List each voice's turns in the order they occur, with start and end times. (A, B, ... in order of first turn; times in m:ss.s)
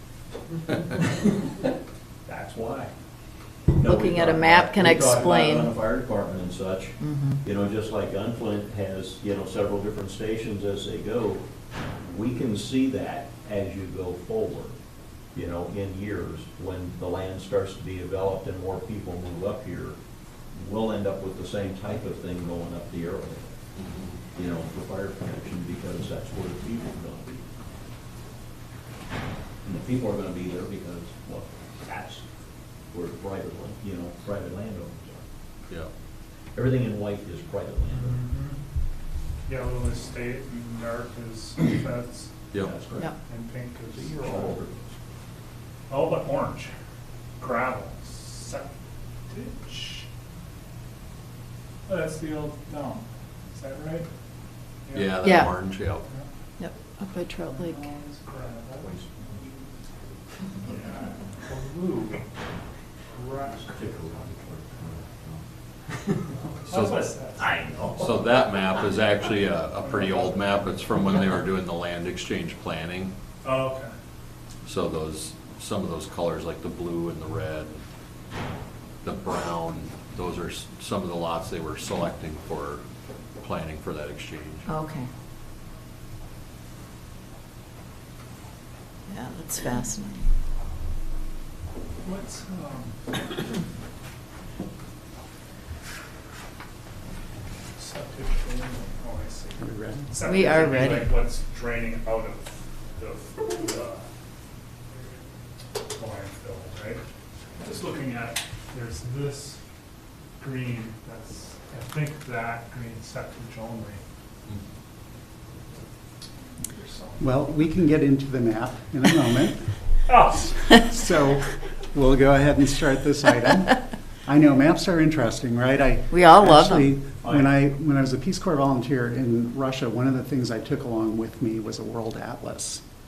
0:02.3-0:02.9 A
0:03.7-0:11.4 A
0:03.8-0:05.8 B
0:07.0-0:07.4 B
0:12.0-0:14.8 A
0:15.3-0:20.0 A
0:20.5-0:23.6 A
0:23.8-0:24.2 C
0:24.3-0:27.4 A
0:29.6-0:32.3 A
0:32.9-0:35.2 A
0:36.5-0:38.2 A
0:37.8-0:38.6 D
0:39.5-0:42.3 D
0:42.6-0:43.1 A
0:43.2-0:44.6 D
0:43.7-0:44.9 A
0:45.9-0:46.7 D
0:47.4-0:48.7 D
0:49.3-0:50.1 D
0:51.9-0:54.1 D
0:54.9-0:55.2 D
0:54.9-0:56.1 C
0:55.2-0:55.5 B
0:56.0-0:56.3 D
0:56.6-0:57.9 B
0:57.5-0:59.7 D
0:58.7-0:59.2 A
1:00.7-1:02.2 D
1:03.1-1:04.4 D
1:03.5-1:05.4 A
1:06.5-1:08.2 D
1:06.7-1:07.1 C
1:07.4-1:08.1 A
1:08.0-1:13.1 C
1:09.8-1:10.5 D
1:13.4-1:13.9 D
1:14.6-1:17.8 C
1:19.0-1:22.8 C
1:23.4-1:24.7 C
1:24.7-1:25.1 B
1:29.1-1:30.3 B
1:32.0-1:33.2 D
1:37.8-1:44.0 D
1:39.6-1:40.2 E
1:40.2-1:41.2 B
1:45.9-1:47.0 D
1:47.6-1:49.6 D
1:50.4-1:54.0 D
1:56.6-1:57.2 D
1:57.2-1:59.7 E
2:00.1-2:00.6 D
2:00.7-2:12.8 E
2:06.1-2:07.0 B
2:07.2-2:07.5 A